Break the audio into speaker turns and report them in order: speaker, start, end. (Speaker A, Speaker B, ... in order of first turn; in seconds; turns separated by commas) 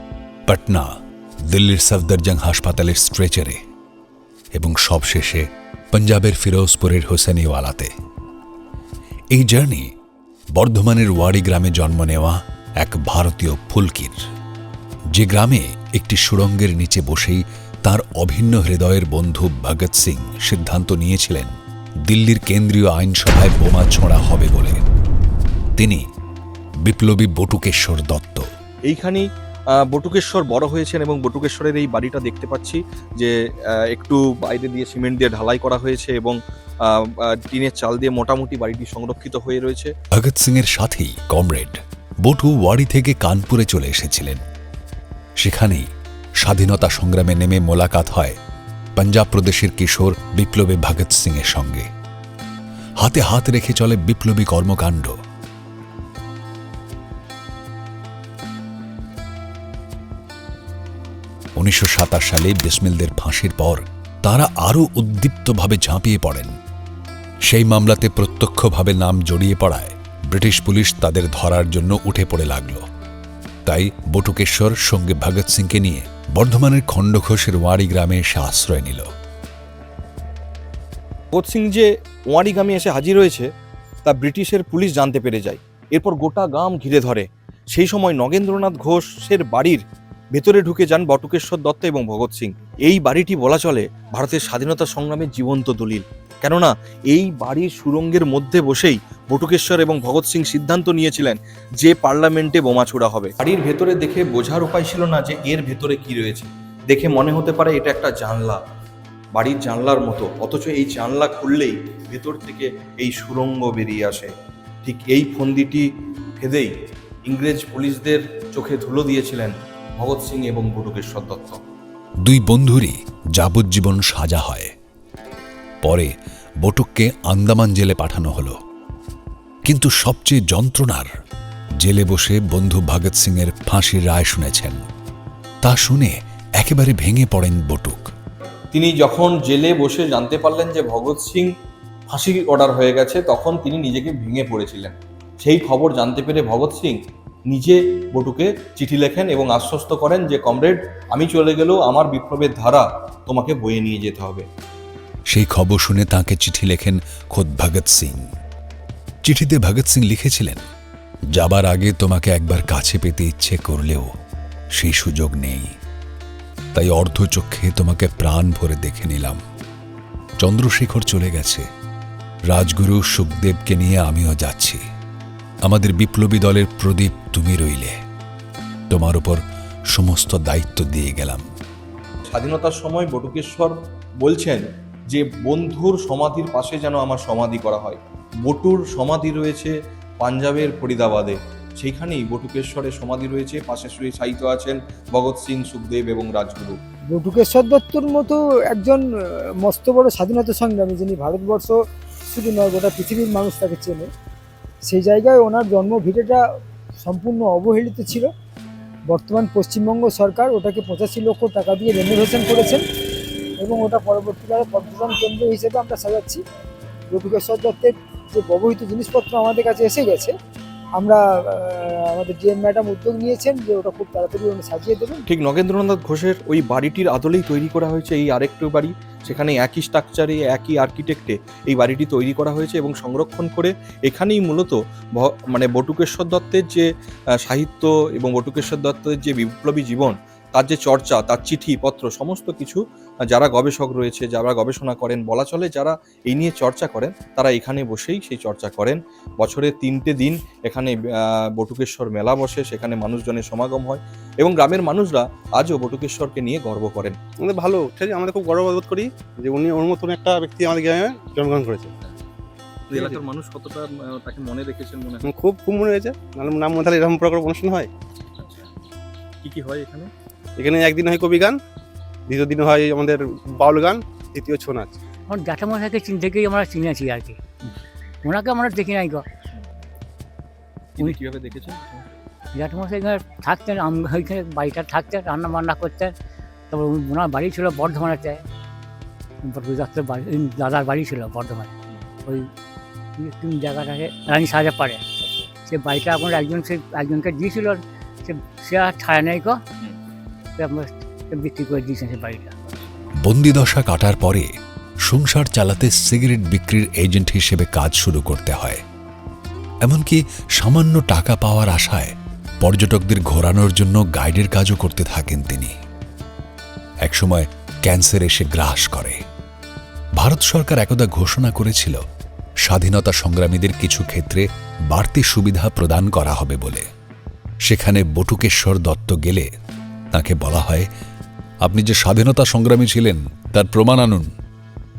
Speaker A: 0.5-0.9, Speaker A: 1.5-3.6, Speaker A: 4.5-7.9, Speaker A: 9.3-9.9, Speaker A: 10.6-14.2, Speaker A: 15.2-21.5, Speaker A: 22.1-24.8, Speaker A: 25.8-26.0, Speaker A: 26.9-28.4, Speaker B: 28.9-29.3, Speaker B: 29.8-39.9, Speaker A: 40.1-44.4, Speaker A: 45.4-45.9, Speaker A: 46.4-48.4, Speaker A: 49.0-51.9, Speaker A: 53.0-55.2, Speaker A: 61.6-66.5, Speaker A: 67.5-72.9, Speaker A: 73.7-79.1, Speaker B: 81.3-83.5, Speaker B: 84.0-89.8, Speaker B: 90.3-108.6, Speaker B: 109.3-114.3, Speaker B: 114.8-115.9, Speaker B: 116.4-116.7, Speaker B: 117.3-121.6, Speaker A: 122.2-124.7, Speaker A: 125.8-126.1, Speaker A: 126.6-128.6, Speaker A: 129.7-131.1, Speaker A: 131.8-134.8, Speaker A: 135.6-138.1, Speaker B: 138.7-141.5, Speaker B: 142.1-147.0, Speaker B: 147.5-154.5, Speaker A: 155.3-158.3, Speaker A: 159.3-160.6, Speaker A: 161.3-164.1, Speaker A: 164.8-165.8, Speaker A: 166.7-169.4, Speaker A: 170.4-171.7, Speaker A: 172.5-174.8, Speaker A: 175.7-178.0, Speaker A: 178.9-179.4, Speaker A: 179.9-181.4, Speaker B: 182.3-196.8, Speaker C: 197.1-201.8, Speaker C: 202.3-204.1, Speaker C: 204.9-206.4, Speaker C: 207.0-208.3, Speaker C: 209.1-212.8, Speaker C: 213.6-216.4, Speaker C: 217.1-220.3, Speaker C: 221.0-225.2, Speaker B: 225.3-236.9, Speaker B: 237.4-257.2, Speaker D: 257.4-261.9, Speaker B: 262.9-265.3, Speaker D: 262.9-263.2, Speaker D: 265.2-267.9, Speaker B: 268.4-268.7, Speaker B: 269.4-270.1, Speaker D: 270.6-271.6, Speaker D: 272.3-275.0, Speaker E: 275.3-277.4, Speaker E: 278.2-279.3, Speaker B: 281.0-282.1, Speaker E: 282.6-286.1, Speaker E: 286.7-288.4, Speaker E: 289.4-291.7, Speaker E: 293.2-295.0, Speaker B: 295.2-295.5, Speaker E: 295.7-299.6, Speaker E: 300.6-302.5, Speaker A: 303.2-304.5, Speaker A: 305.1-308.8, Speaker A: 309.9-315.8, Speaker A: 317.1-319.2, Speaker A: 320.2-322.0, Speaker A: 322.7-326.9, Speaker A: 327.7-329.5, Speaker A: 330.1-330.9, Speaker A: 331.6-334.3